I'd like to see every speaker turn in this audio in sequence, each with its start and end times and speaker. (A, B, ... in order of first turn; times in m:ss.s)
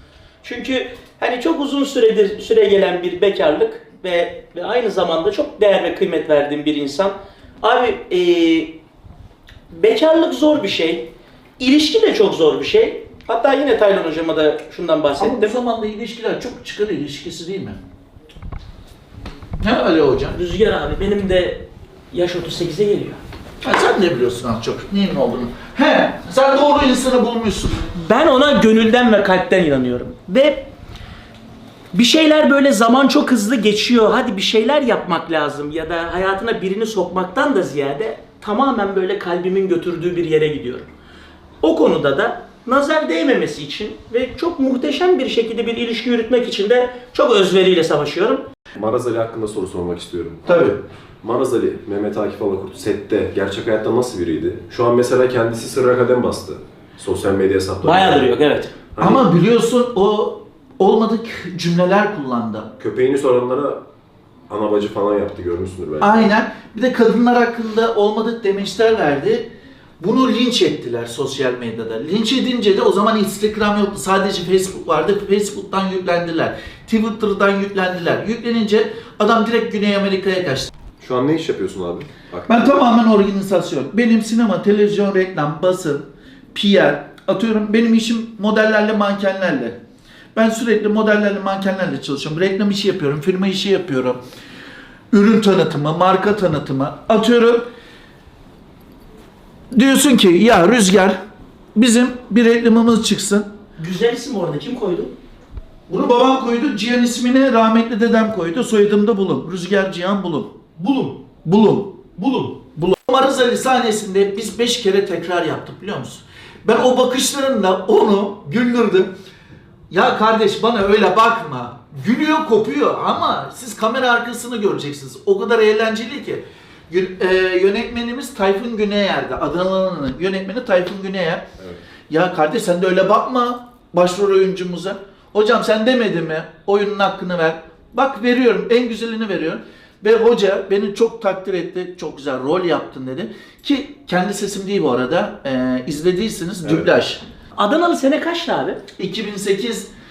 0:00.4-0:08.8 A
0:09.7-0:15.6 A
0:15.2-0:17.8 B
0:19.6-0:20.4 B
0:20.3-0:23.2 A
0:23.6-0:27.9 B
0:28.0-0:30.7 A
0:31.9-0:40.9 A
0:41.6-0:48.4 A
0:48.8-0:58.3 C
0:50.4-0:50.8 B
0:57.8-0:58.8 A
0:59.0-0:59.2 C
0:59.0-1:02.7 B
1:02.8-1:03.8 C
1:04.5-1:06.3 C
1:06.0-1:09.5 B
1:10.0-1:20.7 B
1:21.0-1:22.6 C
1:22.5-1:29.8 B
1:30.4-1:34.2 B
1:35.1-1:37.7 B
1:39.7-1:41.2 B
1:41.8-1:43.5 B
1:43.8-1:45.1 A
1:45.9-1:50.6 B
1:50.8-1:51.1 A
1:51.2-1:59.1 B
1:59.9-2:11.5 B
2:12.1-2:27.2 B
2:27.6-2:28.8 A
2:29.0-2:29.9 B